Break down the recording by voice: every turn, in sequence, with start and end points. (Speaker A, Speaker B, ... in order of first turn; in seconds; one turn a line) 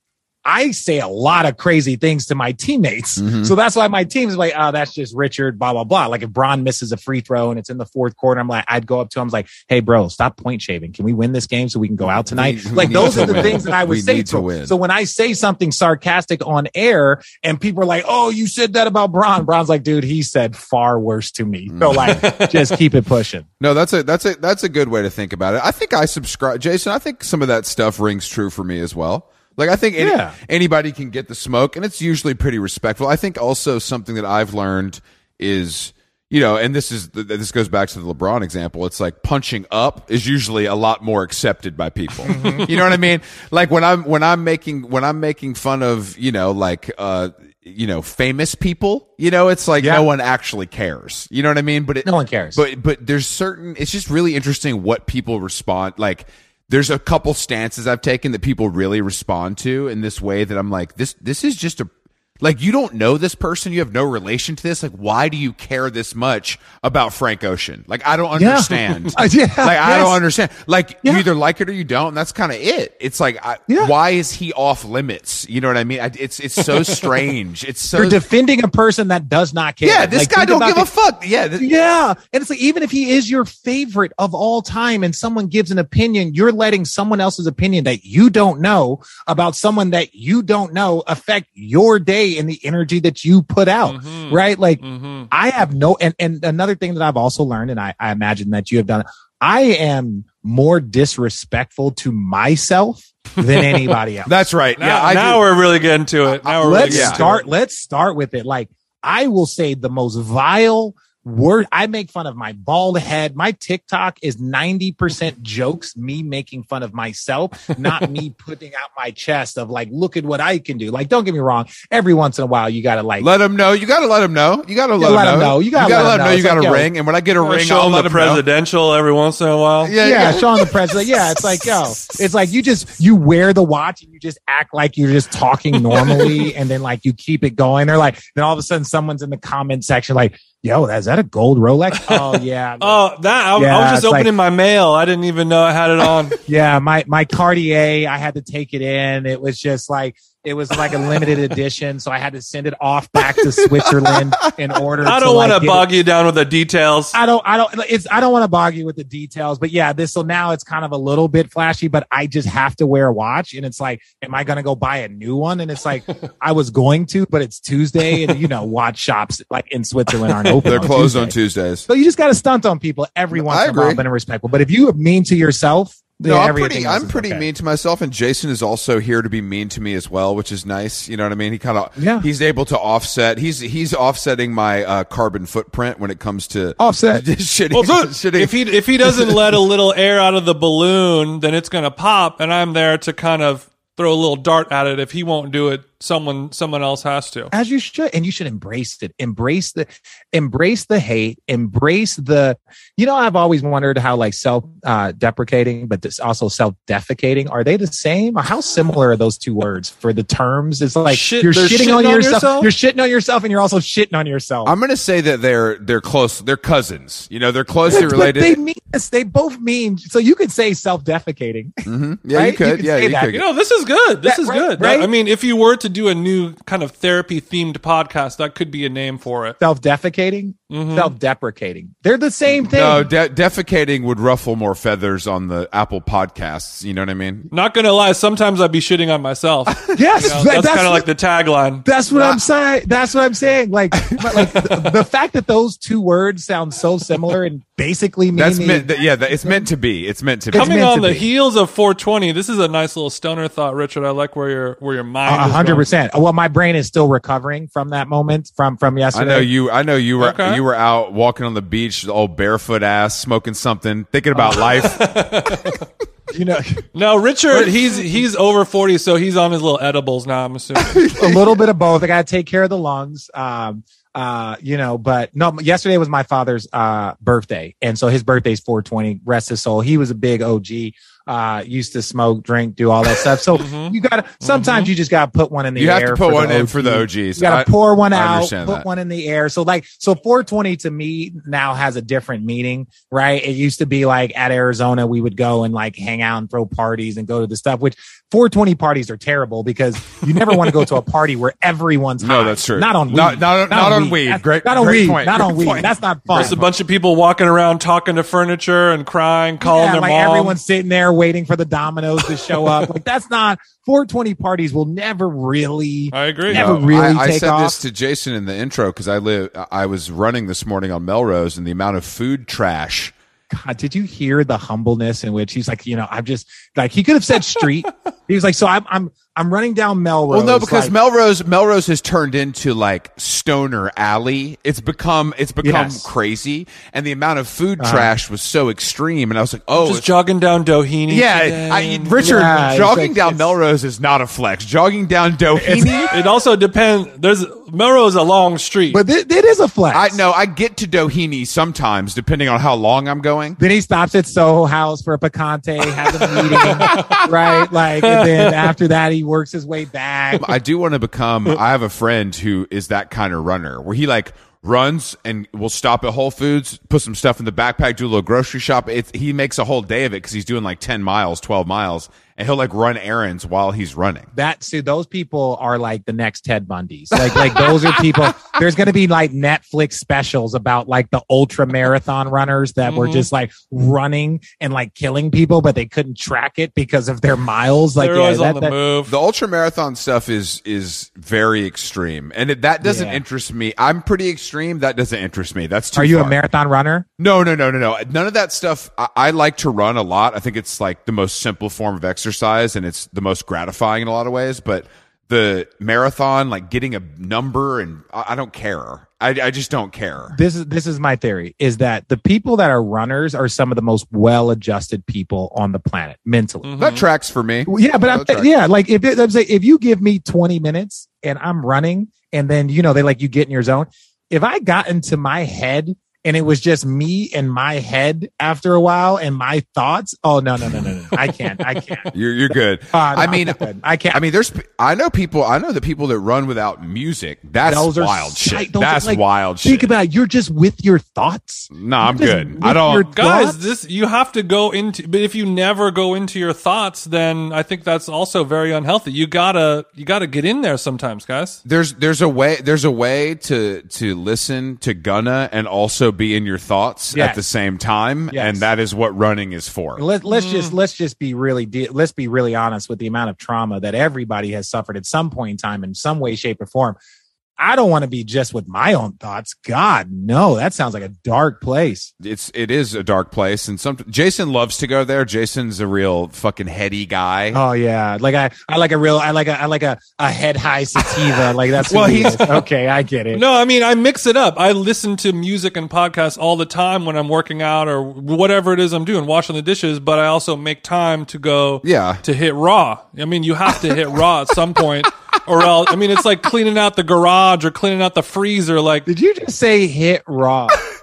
Speaker A: 0.5-23.5
Speaker B: 3.2-3.5
Speaker B: 12.3-14.7
Speaker B: 21.7-22.2
Speaker C: 21.9-22.8
Speaker B: 23.6-78.2
Speaker A: 30.0-30.4
Speaker A: 42.3-42.7
Speaker A: 49.8-50.0
Speaker A: 52.0-52.6
Speaker A: 68.4-70.2
Speaker C: 76.7-77.2
Speaker A: 77.9-80.9
Speaker B: 79.8-81.7
Speaker A: 81.6-104.4
Speaker C: 93.9-95.3
Speaker C: 103.5-103.9
Speaker B: 104.3-105.5
Speaker C: 104.8-107.4
Speaker B: 106.5-107.3
Speaker A: 106.6-123.3
Speaker B: 123.2-128.4
Speaker A: 125.0-126.9
Speaker C: 127.4-130.0
Speaker B: 129.8-131.4
Speaker A: 130.0-143.0
Speaker C: 136.1-136.3
Speaker C: 142.0-146.4
Speaker A: 143.6-144.3
Speaker A: 146.5-155.9
Speaker B: 153.6-154.4
Speaker C: 155.0-157.2
Speaker A: 157.1-171.3
Speaker C: 170.3-170.9
Speaker B: 170.7-171.9
Speaker A: 171.9-177.4
Speaker B: 173.3-174.0
Speaker B: 176.3-189.6
Speaker A: 182.0-182.3
Speaker A: 186.8-187.2
Speaker C: 187.8-197.5
Speaker A: 197.5-214.7
Speaker C: 211.1-212.7
Speaker B: 214.7-218.6
Speaker A: 217.9-223.3
Speaker B: 221.8-223.4
Speaker C: 223.3-229.6
Speaker A: 224.2-225.1
Speaker A: 229.6-233.1
Speaker C: 230.7-231.1
Speaker B: 232.5-237.5
Speaker C: 237.5-242.3
Speaker A: 239.9-241.1
Speaker A: 241.8-248.9
Speaker B: 248.3-250.9
Speaker A: 250.5-251.2
Speaker C: 250.5-255.9
Speaker A: 255.3-259.5
Speaker B: 259.1-265.3
Speaker C: 260.2-260.6
Speaker C: 264.4-265.8
Speaker A: 266.3-266.9
Speaker C: 266.9-271.1
Speaker A: 267.5-268.1
Speaker B: 270.9-271.6
Speaker A: 271.1-306.6
Speaker C: 283.6-284.9
Speaker B: 285.8-288.9
Speaker B: 302.2-306.7
Speaker C: 306.3-310.6
Speaker A: 309.6-317.8
Speaker C: 316.1-316.8
Speaker B: 316.5-323.1
Speaker A: 323.5-330.9
Speaker B: 330.3-340.1
Speaker A: 335.6-336.1
Speaker A: 337.8-338.1
Speaker C: 339.7-342.5
Speaker B: 341.1-346.1
Speaker A: 342.2-343.5
Speaker A: 345.6-346.1
Speaker C: 346.1-349.0
Speaker A: 348.9-350.2
Speaker B: 349.9-353.6
Speaker A: 353.6-360.4
Speaker C: 356.3-358.7
Speaker B: 360.4-374.3
Speaker A: 374.3-388.7
Speaker B: 377.1-378.4
Speaker C: 382.8-383.3
Speaker C: 388.0-389.1
Speaker B: 389.1-396.4
Speaker A: 392.8-393.2
Speaker A: 395.9-397.1
Speaker B: 397.2-410.4
Speaker A: 410.3-416.7
Speaker C: 416.6-417.0
Speaker B: 416.8-418.5
Speaker A: 417.7-432.1
Speaker B: 432.1-433.6
Speaker A: 432.9-434.2
Speaker B: 434.1-439.9
Speaker A: 437.6-443.6
Speaker B: 441.7-443.1
Speaker C: 443.1-451.6
Speaker B: 451.6-460.0
Speaker A: 457.1-457.4
Speaker A: 458.3-458.6
Speaker A: 460.0-467.0
Speaker C: 460.3-460.7
Speaker A: 467.6-472.1
Speaker B: 472.2-477.6
Speaker A: 477.5-483.4
Speaker B: 481.9-482.6
Speaker C: 483.3-499.1
Speaker B: 491.8-492.2
Speaker A: 499.1-500.8